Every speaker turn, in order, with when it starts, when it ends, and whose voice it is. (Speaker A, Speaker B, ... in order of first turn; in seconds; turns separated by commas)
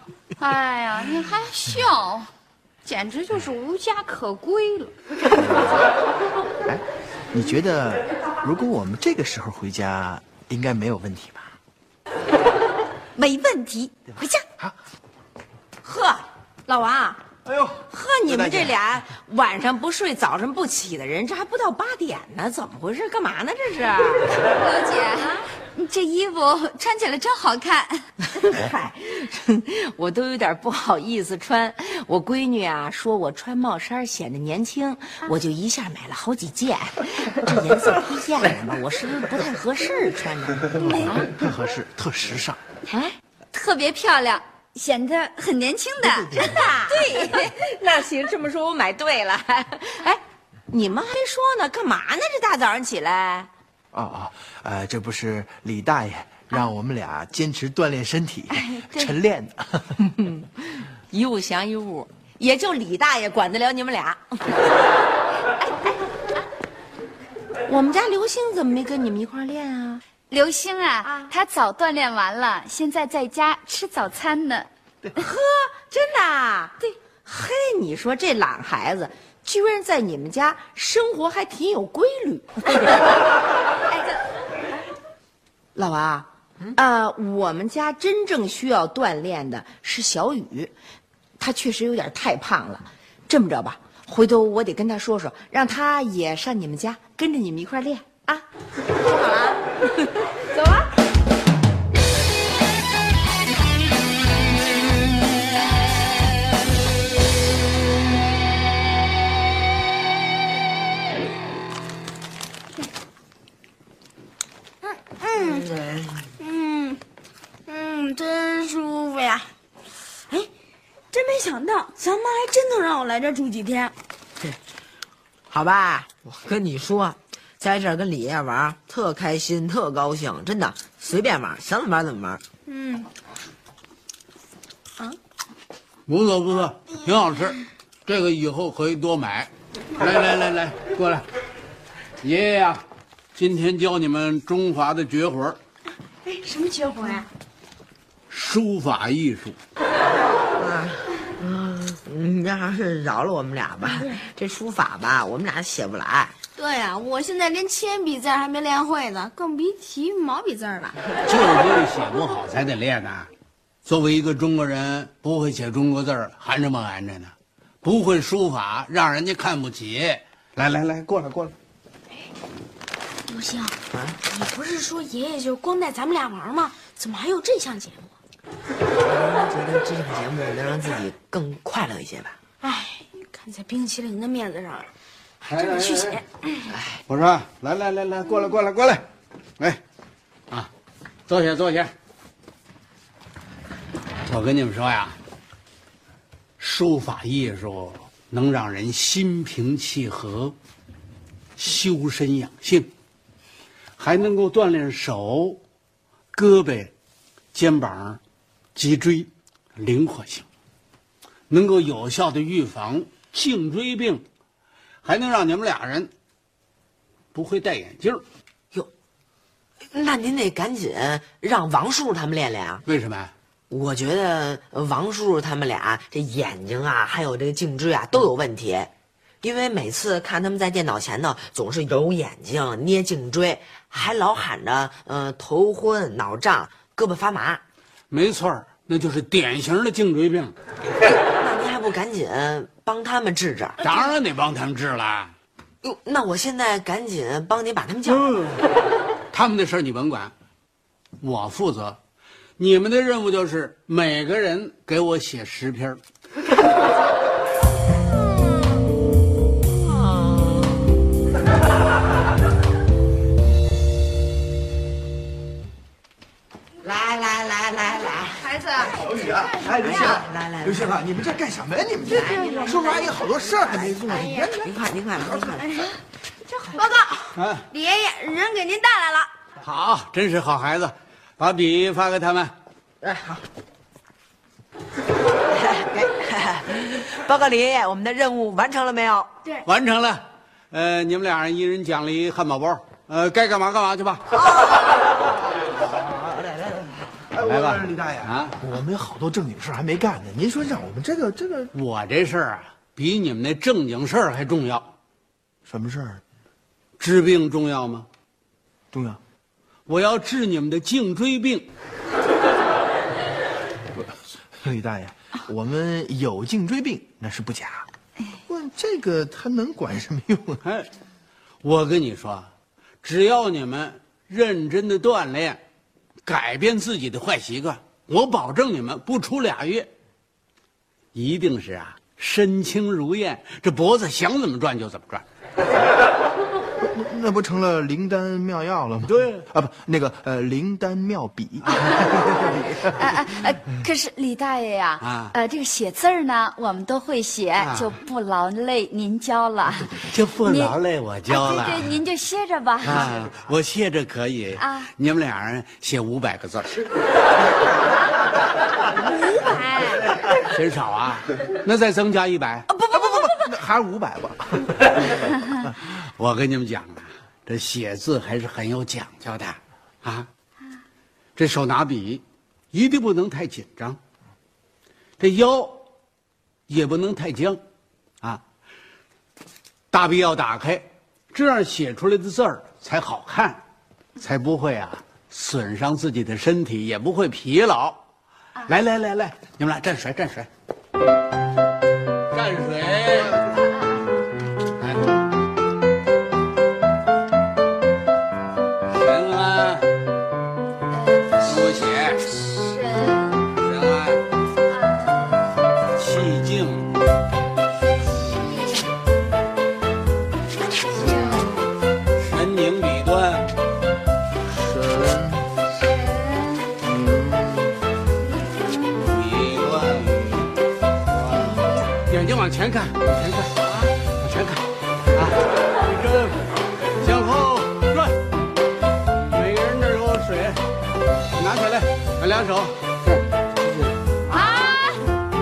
Speaker A: 0.4-2.3, Speaker A: 2.9-4.9, Speaker B: 5.3-5.8, Speaker B: 6.6-11.5, Speaker A: 13.2-14.3, Speaker C: 15.8-17.2, Speaker B: 17.4-18.8, Speaker C: 17.9-24.3, Speaker A: 24.4-28.0, Speaker C: 28.3-41.2, Speaker B: 40.9-42.6, Speaker C: 42.9-43.1, Speaker A: 43.5-47.4, Speaker B: 46.0-47.0, Speaker C: 46.3-53.5, Speaker B: 53.9-60.0, Speaker A: 58.5-59.1, Speaker C: 60.0-64.6, Speaker C: 67.7-70.0, Speaker A: 70.3-74.7, Speaker C: 71.0-71.3, Speaker C: 75.1-83.0, Speaker C: 85.8-90.7, Speaker C: 91.4-98.4, Speaker D: 99.0-99.6, Speaker D: 100.5-100.8, Speaker D: 114.8-115.7, Speaker E: 115.4-116.3, Speaker D: 116.4-117.0, Speaker D: 117.7-119.5, Speaker D: 121.1-123.9, Speaker E: 125.5-132.4, Speaker D: 132.7-133.1, Speaker F: 136.1-141.2, Speaker F: 142.2-142.8, Speaker F: 143.3-145.6, Speaker D: 146.2-147.3, Speaker F: 148.3-149.6, Speaker E: 150.6-156.3, Speaker D: 156.6-161.1, Speaker F: 161.2-163.3, Speaker F: 163.8-171.5, Speaker D: 173.3-173.8, Speaker E: 173.9-174.2, Speaker D: 174.2-178.1, Speaker E: 179.0-182.4, Speaker D: 182.6-184.9, Speaker F: 185.4-186.2, Speaker D: 185.4-186.7, Speaker F: 187.1-189.0, Speaker F: 191.3-191.9, Speaker F: 194.3-195.2, Speaker F: 196.6-200.5, Speaker F: 201.6-202.9, Speaker F: 204.0-205.6, Speaker F: 206.3-206.9, Speaker F: 207.5-208.2, Speaker F: 208.8-210.4, Speaker F: 211.5-214.2, Speaker F: 215.0-216.1, Speaker F: 217.3-218.2, Speaker E: 219.9-222.8, Speaker F: 222.9-223.3, Speaker E: 223.7-228.9, Speaker E: 229.4-237.6, Speaker F: 238.1-240.5, Speaker E: 241.3-243.8, Speaker F: 243.8-245.3, Speaker E: 245.8-248.5, Speaker F: 248.1-248.6, Speaker F: 249.3-250.3, Speaker F: 251.2-252.0, Speaker F: 252.6-256.0, Speaker E: 258.0-258.4, Speaker E: 259.7-260.8, Speaker E: 266.8-268.5, Speaker D: 268.4-270.1, Speaker B: 268.9-275.4, Speaker E: 269.8-270.9, Speaker E: 272.1-272.5, Speaker D: 272.2-273.2, Speaker E: 273.9-275.9, Speaker D: 274.2-274.5, Speaker D: 276.7-279.3, Speaker F: 277.4-277.6, Speaker F: 279.6-282.5, Speaker E: 283.0-283.4, Speaker E: 285.5-289.4, Speaker F: 289.6-294.3, Speaker E: 295.7-297.0, Speaker B: 297.3-301.7, Speaker F: 297.4-298.6, Speaker F: 301.7-304.9, Speaker B: 305.6-306.2, Speaker F: 307.0-308.1, Speaker B: 308.9-309.2, Speaker F: 309.9-311.7, Speaker B: 313.9-317.9, Speaker B: 318.4-320.6, Speaker F: 321.6-322.5, Speaker F: 323.0-325.6, Speaker F: 326.2-329.9, Speaker F: 331.1-335.2, Speaker B: 336.8-343.1, Speaker F: 339.1-339.4, Speaker A: 342.9-350.7, Speaker F: 345.0-345.3, Speaker F: 347.6-347.9, Speaker F: 350.1-352.0, Speaker A: 351.3-353.1, Speaker F: 352.9-356.8, Speaker A: 354.6-354.9, Speaker C: 359.0-360.0, Speaker F: 360.5-362.6, Speaker B: 362.9-365.9, Speaker F: 365.8-370.3, Speaker F: 371.4-374.0, Speaker F: 375.2-375.9, Speaker F: 376.7-377.6, Speaker F: 379.9-383.6, Speaker F: 384.2-388.0, Speaker F: 388.6-390.5, Speaker F: 392.3-393.5, Speaker A: 393.5-394.2, Speaker F: 394.8-395.1, Speaker F: 398.9-399.9, Speaker A: 400.9-401.5, Speaker F: 401.4-402.3, Speaker A: 402.3-403.4, Speaker F: 403.6-404.2, Speaker A: 404.7-405.5, Speaker F: 406.0-406.9, Speaker A: 408.2-408.9, Speaker F: 411.1-411.4, Speaker F: 412.2-413.5, Speaker B: 414.4-415.5, Speaker A: 415.9-416.2, Speaker B: 416.8-417.8, Speaker F: 419.0-420.6, Speaker F: 421.1-426.4, Speaker F: 427.0-428.2, Speaker F: 429.2-430.6, Speaker F: 431.4-433.2, Speaker A: 434.3-435.0